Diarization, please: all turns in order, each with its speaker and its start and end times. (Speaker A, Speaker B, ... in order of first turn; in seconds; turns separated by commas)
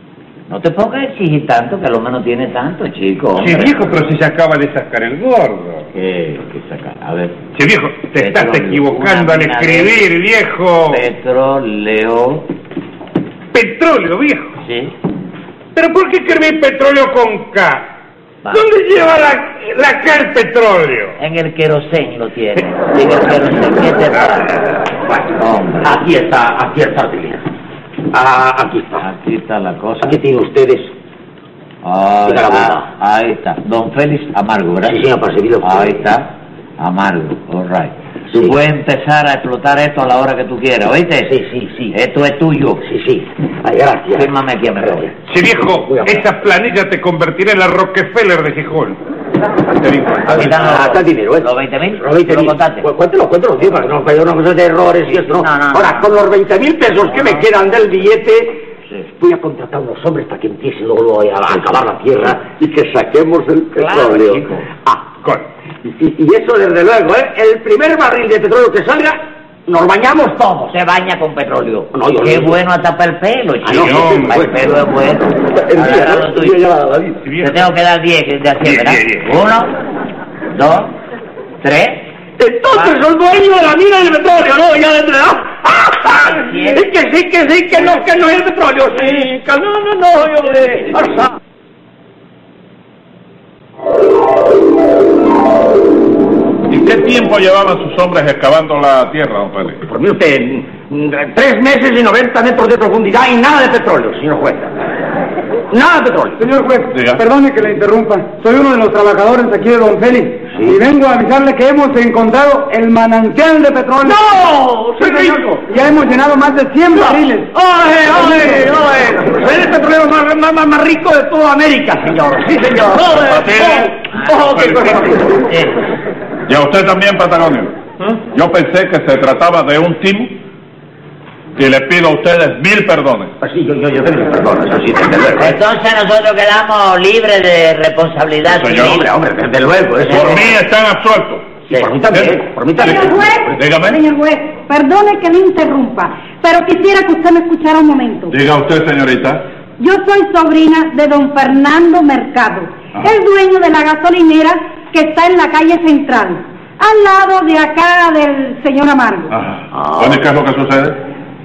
Speaker A: 0.5-3.7, Speaker B: 3.4-5.9, Speaker A: 5.9-7.4, Speaker B: 7.5-11.1, Speaker A: 8.2-10.0, Speaker A: 10.9-12.5, Speaker B: 13.5-14.6, Speaker A: 14.6-14.9, Speaker B: 15.8-17.9, Speaker B: 18.5-21.2, Speaker A: 21.2-24.5, Speaker B: 24.3-24.6, Speaker A: 25.4-26.0, Speaker C: 25.8-27.5, Speaker C: 28.1-29.1, Speaker A: 29.0-30.2, Speaker C: 30.0-30.9, Speaker A: 31.8-35.0, Speaker C: 32.3-32.9, Speaker C: 34.9-36.0, Speaker A: 35.6-41.3, Speaker C: 41.2-41.9, Speaker A: 41.9-42.9, Speaker C: 42.9-45.2, Speaker A: 44.1-45.1, Speaker B: 45.3-49.0, Speaker C: 45.8-46.3, Speaker C: 50.2-65.2, Speaker A: 50.3-52.9, Speaker A: 55.1-56.1, Speaker A: 57.1-57.4, Speaker A: 63.8-64.7, Speaker C: 65.8-70.8, Speaker A: 70.7-76.7, Speaker C: 71.9-72.6, Speaker C: 73.6-74.6, Speaker B: 73.8-74.4, Speaker C: 75.5-77.2, Speaker B: 77.2-77.6, Speaker A: 77.4-79.8, Speaker B: 78.6-79.3, Speaker A: 80.5-81.0, Speaker A: 81.6-82.1, Speaker C: 82.4-91.4, Speaker A: 86.2-86.9, Speaker D: 96.7-99.8, Speaker C: 99.8-104.8, Speaker C: 105.7-106.4, Speaker E: 106.4-114.2, Speaker D: 106.9-107.2, Speaker C: 114.0-115.6, Speaker E: 115.0-117.5, Speaker C: 116.9-125.4, Speaker D: 123.2-125.2, Speaker A: 124.1-124.5, Speaker A: 125.4-125.9, Speaker D: 126.5-127.8, Speaker D: 128.3-130.4, Speaker D: 131.6-133.3, Speaker C: 133.4-135.6, Speaker A: 135.4-139.1, Speaker D: 138.5-139.0, Speaker C: 138.6-140.6, Speaker D: 140.0-141.6, Speaker C: 141.7-143.6, Speaker D: 142.1-144.0, Speaker F: 142.8-148.3, Speaker D: 148.3-149.5, Speaker F: 149.8-159.3, Speaker D: 159.3-161.0